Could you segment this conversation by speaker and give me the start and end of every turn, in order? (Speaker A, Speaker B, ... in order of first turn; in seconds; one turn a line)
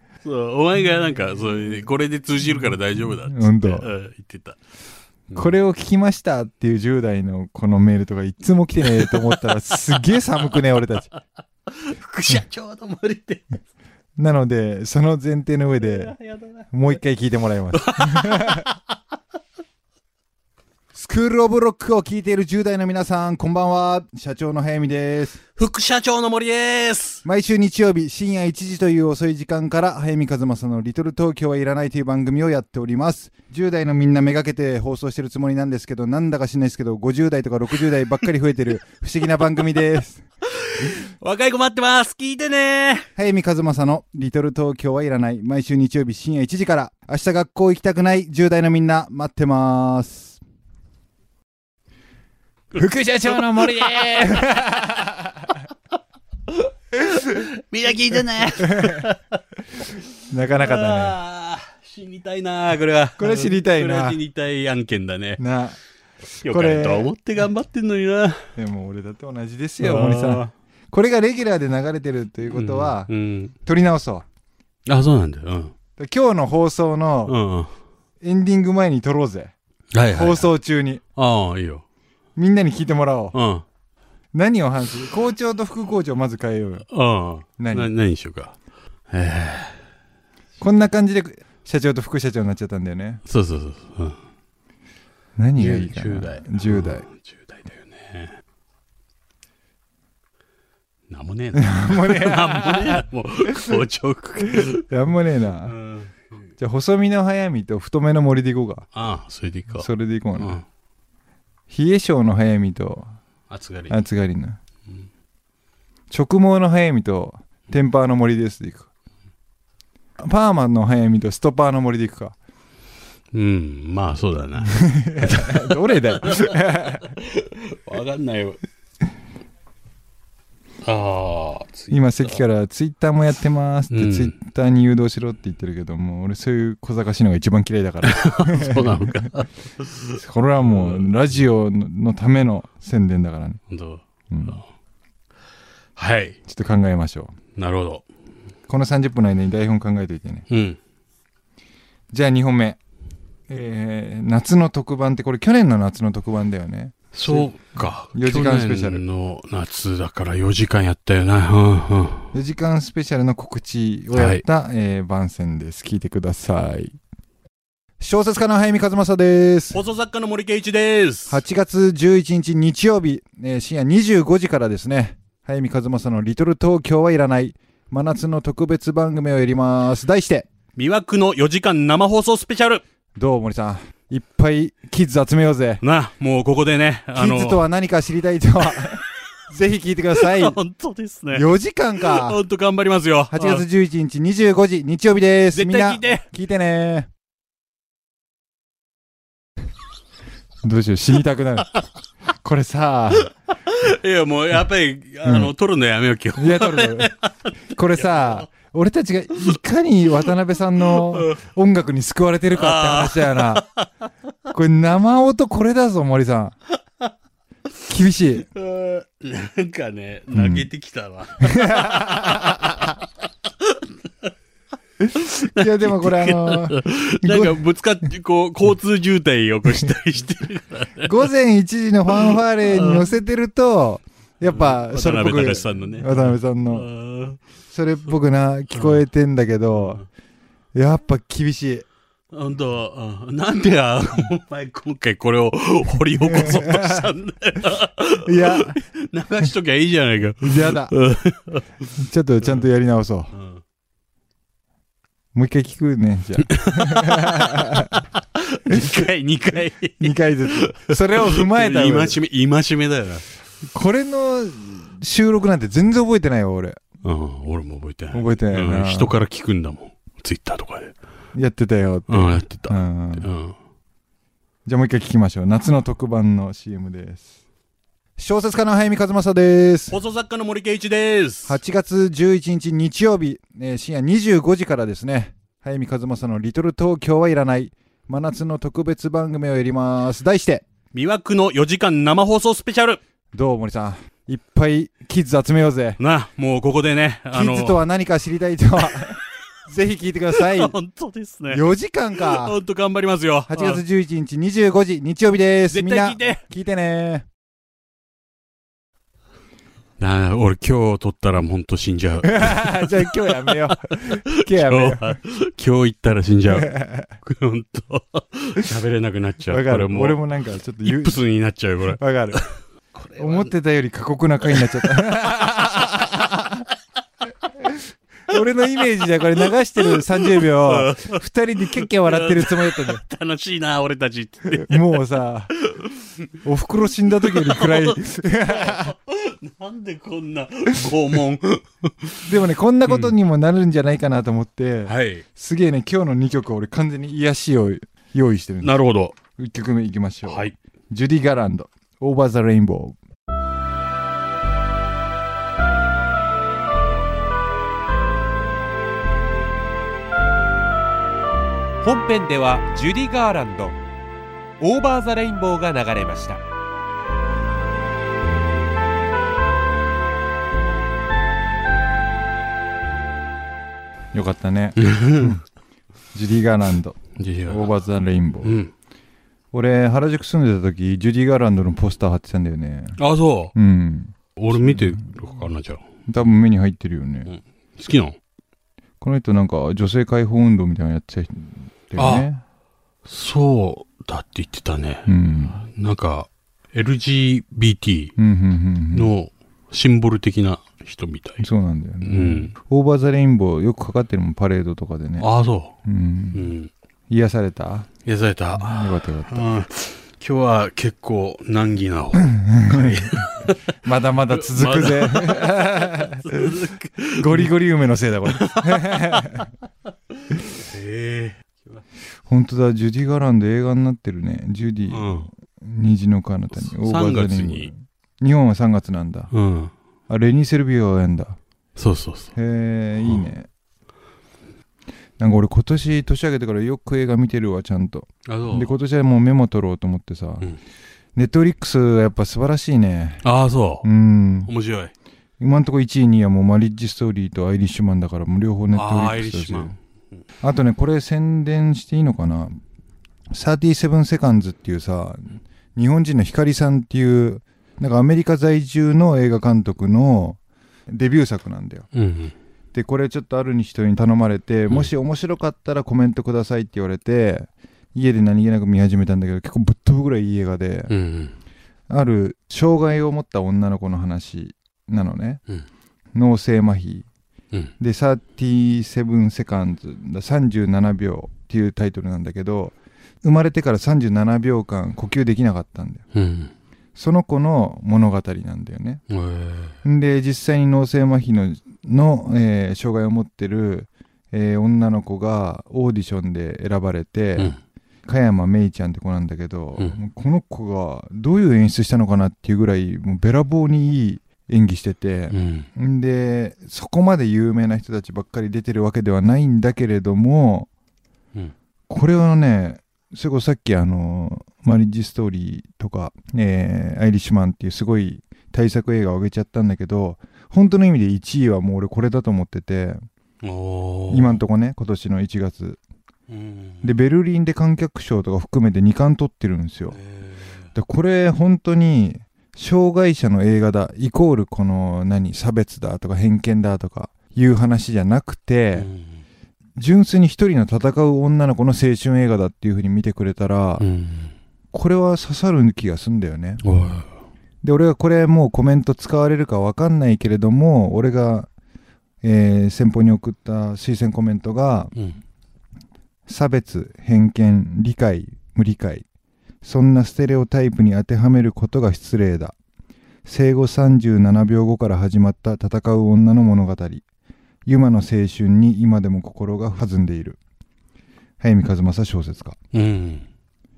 Speaker A: 0.2-4.6
Speaker B: 3.2-3.9
Speaker B: 5.3-11.1
Speaker A: 8.9-9.3
Speaker A: 11.7-13.6
Speaker B: 14.2-16.1
Speaker A: 15.8-16.7
Speaker B: 16.7-18.7
Speaker A: 17.7-18.8
Speaker B: 20.9-25.4
Speaker A: 25.6-27.2
Speaker B: 27.2-40.2
Speaker A: 40.5-43.1
Speaker B: 43.1-50.4
Speaker B: 52.7-55.6
Speaker A: 52.8-54.3
Speaker A: 56.5-59.4
Speaker B: 58.6-59.1
Speaker B: 60.3-61.2
Speaker A: 60.5-65.4
Speaker B: 63.2-64.2
Speaker B: 65.4-65.8
Speaker A: 66.4-68.5
Speaker B: 66.4-67.1
Speaker B: 68.5-73.1
Speaker A: 69.8-70.5
Speaker A: 72.5-73.5
Speaker B: 73.6-74.2
Speaker A: 74.9-75.7
Speaker B: 76.0-77.3
Speaker A: 77.2-77.7
Speaker B: 78.2-79.5
Speaker A: 79.9-80.5
Speaker B: 80.1-81.0
Speaker A: 81.2-81.8
Speaker B: 82.3-83.3
Speaker A: 83.3-83.6
Speaker B: 84.3-86.8
Speaker A: 86.9-88.5
Speaker B: 87.6-87.9
Speaker A: 89.1-89.8
Speaker B: 90.6-93.2
Speaker A: 93.2-94.2
Speaker B: 95.3-97.0
Speaker A: 95.6-98.3
Speaker A: 101.1-104.9
Speaker B: 101.5-103.8
Speaker B: 104.5-105.7
Speaker A: 105.7-106.3
Speaker B: 106.6-108.8
Speaker A: 108.9-109.9
Speaker B: 109.8-110.6
Speaker A: 110.4-110.6
Speaker B: 111.7-113.2
Speaker A: 113.5-114.0
Speaker B: 113.9-114.6
Speaker B: 116.1-118.9
Speaker B: 120.2-122.3
Speaker A: 123.3-128.6
Speaker B: 124.7-127.1
Speaker A: 130.8-132.4
Speaker B: 131.9-139.3
Speaker A: 133.9-134.3
Speaker A: 138.0-141.1
Speaker B: 140.1-143.6
Speaker A: 143.7-144.6
Speaker B: 144.3-144.6
Speaker A: 146.0-146.4
Speaker B: 146.5-147.3
Speaker A: 147.6-148.1
Speaker B: 148.7-150.5
Speaker A: 150.5-150.8
Speaker B: 152.1-152.8
Speaker B: 153.5-159.0
Speaker A: 157.1-162.3
Speaker B: 162.3-167.0
Speaker A: 164.1-164.4
Speaker B: 168.0-169.8
Speaker A: 169.7-171.4
Speaker B: 171.3-180.5
Speaker A: 180.8-182.8
Speaker B: 183.2-185.8
Speaker A: 185.8-187.6
Speaker B: 187.2-190.6
Speaker A: 190.2-191.5
Speaker B: 191.3-192.4
Speaker A: 192.0-193.7
Speaker B: 193.3-197.1
Speaker A: 195.5-196.3
Speaker B: 200.6-201.8
Speaker B: 202.4-203.3
Speaker A: 203.7-207.3
Speaker B: 205.2-205.5
Speaker B: 206.4-207.1
Speaker B: 207.7-213.7
Speaker A: 208.0-208.4
Speaker A: 210.8-211.4
Speaker A: 212.5-213.9
Speaker B: 214.5-216.5
Speaker B: 217.9-218.4
Speaker A: 218.5-222.9
Speaker B: 220.3-220.7
Speaker B: 221.4-222.9
Speaker A: 223.6-223.9
Speaker B: 225.0-227.6
Speaker A: 225.1-231.3
Speaker B: 231.0-236.9
Speaker A: 232.1-233.1
Speaker A: 234.5-237.4
Speaker B: 237.7-240.0
Speaker B: 240.7-241.8
Speaker A: 242.3-251.7
Speaker B: 246.3-247.1
Speaker B: 248.2-248.8
Speaker B: 250.4-250.9
Speaker B: 251.9-253.3
Speaker A: 253.3-253.6
Speaker B: 255.3-258.0
Speaker A: 256.9-257.7
Speaker A: 258.4-263.2
Speaker B: 258.7-259.1
Speaker B: 260.0-262.2
Speaker B: 263.7-266.8
Speaker A: 267.0-270.9
Speaker B: 268.1-269.1
Speaker B: 271.3-273.3
Speaker A: 272.1-273.6
Speaker B: 274.6-277.3
Speaker B: 278.2-280.0
Speaker A: 279.9-281.6
Speaker B: 281.4-290.6
Speaker A: 290.9-293.0
Speaker B: 293.3-296.0
Speaker A: 296.0-297.8
Speaker B: 297.3-300.8
Speaker A: 300.4-303.8
Speaker B: 301.5-302.6
Speaker B: 303.5-307.3
Speaker A: 305.7-306.4
Speaker A: 310.0-320.2
Speaker B: 312.2-315.2
Speaker B: 316.5-317.1
Speaker B: 319.5-321.2
Speaker A: 320.8-322.4
Speaker B: 322.0-322.4
Speaker A: 322.9-323.5
Speaker B: 323.2-326.6
Speaker A: 324.5-325.9
Speaker B: 327.6-333.0
Speaker A: 329.8-331.2
Speaker A: 331.8-335.0
Speaker B: 334.5-335.5
Speaker A: 335.6-336.1
Speaker B: 336.4-338.9
Speaker A: 337.2-342.2
Speaker B: 342.2-348.8
Speaker A: 342.9-343.1
Speaker A: 344.9-345.2
Speaker A: 348.6-349.1
Speaker B: 349.4-353.0
Speaker A: 350.3-350.6
Speaker C: 361.8-363.8
Speaker C: 364.6-366.4
Speaker B: 374.1-375.4
Speaker A: 374.8-375.4
Speaker B: 376.1-378.6
Speaker A: 377.2-377.7
Speaker A: 378.4-378.7
Speaker B: 379.5-383.0
Speaker A: 383.0-383.5
Speaker B: 383.5-385.2
Speaker A: 384.4-385.9
Speaker B: 386.1-387.3
Speaker A: 387.2-388.2
Speaker B: 389.0-392.4
Speaker A: 392.0-392.3
Speaker A: 393.0-398.1
Speaker B: 395.1-395.6
Speaker B: 398.2-399.1
Speaker A: 398.9-401.5
Speaker B: 401.4-405.3
Speaker A: 402.0-402.5
Speaker A: 405.2-405.8
Speaker B: 405.8-406.5
Speaker A: 406.3-406.7
Speaker B: 407.1-407.9
Speaker A: 408.0-413.7
Speaker B: 408.5-409.5
Speaker B: 412.1-413.3
Speaker B: 413.8-416.6
Speaker A: 414.3-417.5
Speaker B: 417.2-419.5
Speaker A: 418.3-419.5
Speaker A: 420.2-421.4
Speaker B: 422.3-429.3
Speaker A: 424.9-425.3
Speaker A: 426.5-427.7
Speaker A: 429.3-429.7
Speaker B: 430.1-431.4
Speaker A: 431.8-432.3
Speaker B: 432.3-433.5
Speaker A: 433.0-433.3
Speaker B: 435.2-440.5
Speaker A: 438.2-438.8
Speaker B: 441.1-443.2
Speaker A: 443.2-443.9
Speaker B: 443.8-444.5
Speaker A: 444.4-444.9
Speaker B: 445.4-449.7
Speaker A: 448.7-449.8
Speaker B: 450.4-452.6
Speaker B: 453.3-461.9
Speaker A: 461.9-462.3
Speaker B: 462.7-470.9
Speaker A: 470.9-471.3
Speaker B: 471.9-475.4
Speaker B: 476.1-477.1
Speaker B: 477.8-486.0
Speaker A: 486.1-486.5
Speaker B: 486.9-489.0
Speaker A: 489.1-489.8
Speaker B: 489.8-497.5
Speaker B: 498.1-510.7
Speaker A: 505.3-505.7
Speaker B: 511.9-523.0
Speaker A: 523.4-524.4
Speaker B: 524.1-525.8
Speaker A: 526.3-526.9
Speaker B: 526.8-530.0
Speaker A: 529.9-530.7
Speaker B: 530.7-538.9
Speaker A: 538.8-539.2
Speaker B: 539.8-543.9
Speaker A: 543.8-544.3
Speaker B: 544.7-546.6
Speaker A: 546.6-547.1
Speaker B: 547.6-551.5
Speaker B: 552.2-554.9
Speaker B: 556.3-559.0
Speaker B: 559.6-562.5
Speaker B: 563.2-567.0
Speaker B: 567.6-570.4
Speaker B: 571.4-572.6
Speaker A: 572.7-573.2